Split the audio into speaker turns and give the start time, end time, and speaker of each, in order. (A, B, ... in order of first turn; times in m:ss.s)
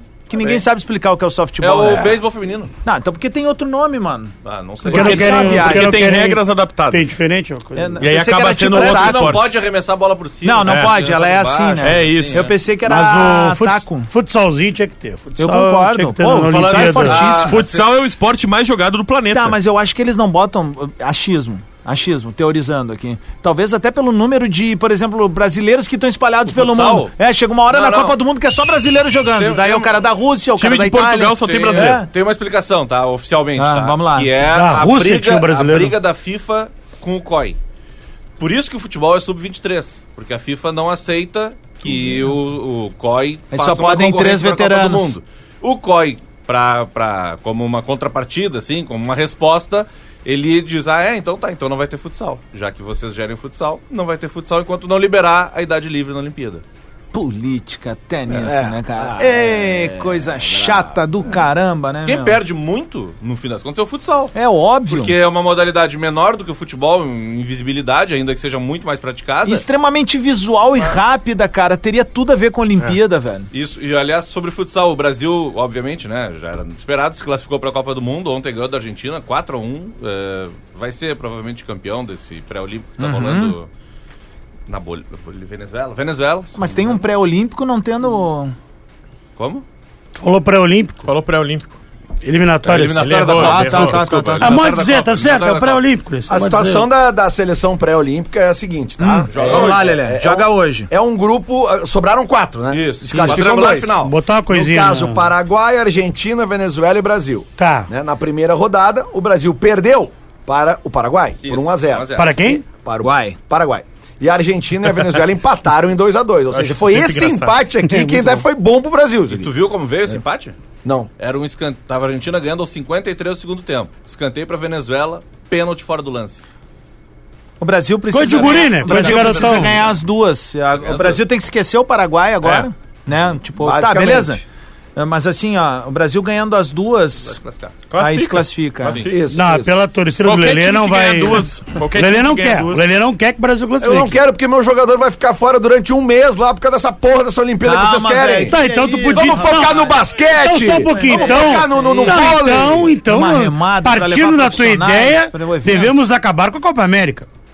0:00.3-0:02.2 A
0:01.6-0:02.7 B
0:02.8-0:04.3 A
0:04.4-0:05.6 B
0:04.8-0:06.0 A
0:04.9-0:08.0 C
0:04.9-0:07.2 D
0:07.8-0:09.4 A
0:08.0-0:09.5 D
0:08.7-0:12.5 B
0:10.4-0:14.1 A
0:10.6-0:11.0 D
0:11.8-0:12.5 D
0:12.9-0:17.2 C
0:15.4-0:17.6 A
0:16.6-0:19.6 D
0:17.0-0:17.9 B
0:19.3-0:32.1 A
0:26.5-0:27.1 B
0:27.7-0:28.2 B
0:29.4-0:30.0 B
0:30.6-0:32.0 D
0:31.4-0:37.6 B
0:33.6-0:34.3 A
0:34.5-0:36.0 C
0:38.4-0:56.6 B
0:43.5-0:45.2 A
0:57.1-1:02.4 A
0:58.3-1:00.9 E
1:02.0-1:04.3 B
1:04.3-1:05.2 A
1:04.9-1:09.7 B
1:09.4-1:13.5 A
1:13.5-1:23.7 B
1:23.0-1:23.6 A
1:24.7-1:27.0 B
1:26.6-1:28.5 A
1:29.4-1:29.6 B
1:30.2-1:31.1 C
1:31.0-1:31.7 D
1:32.2-1:33.2 C
1:32.6-1:35.8 B
1:32.9-1:34.1 D
1:33.4-1:34.7 A
1:34.4-1:36.9 C
1:36.3-1:52.1 E
1:39.0-1:40.9 A
1:39.3-1:40.0 B
1:42.7-1:44.1 B
1:43.1-1:43.6 A
1:44.0-1:45.3 C
1:47.6-1:47.9 C
1:51.4-1:52.6 B
1:52.2-1:52.6 C
1:52.6-1:59.5 E
1:53.0-1:53.4 A
1:56.5-1:58.3 D
1:59.3-2:00.6 B
2:00.8-2:01.1 E
2:01.2-2:06.4 B
2:07.6-2:14.4 A
2:08.1-2:09.8 C
2:08.3-2:09.9 B
2:10.7-2:11.2 B
2:13.6-2:14.4 E
2:15.0-2:17.4 A
2:17.2-2:17.8 B
2:17.9-2:19.1 D
2:18.0-2:19.0 A
2:18.8-2:19.1 B
2:18.9-2:19.7 E
2:19.3-2:24.2 C
2:20.2-2:22.9 D
2:23.8-2:28.6 E
2:27.6-2:30.0 A
2:28.5-2:37.3 C
2:29.1-2:32.9 E
2:30.8-2:32.4 A
2:33.1-2:36.0 A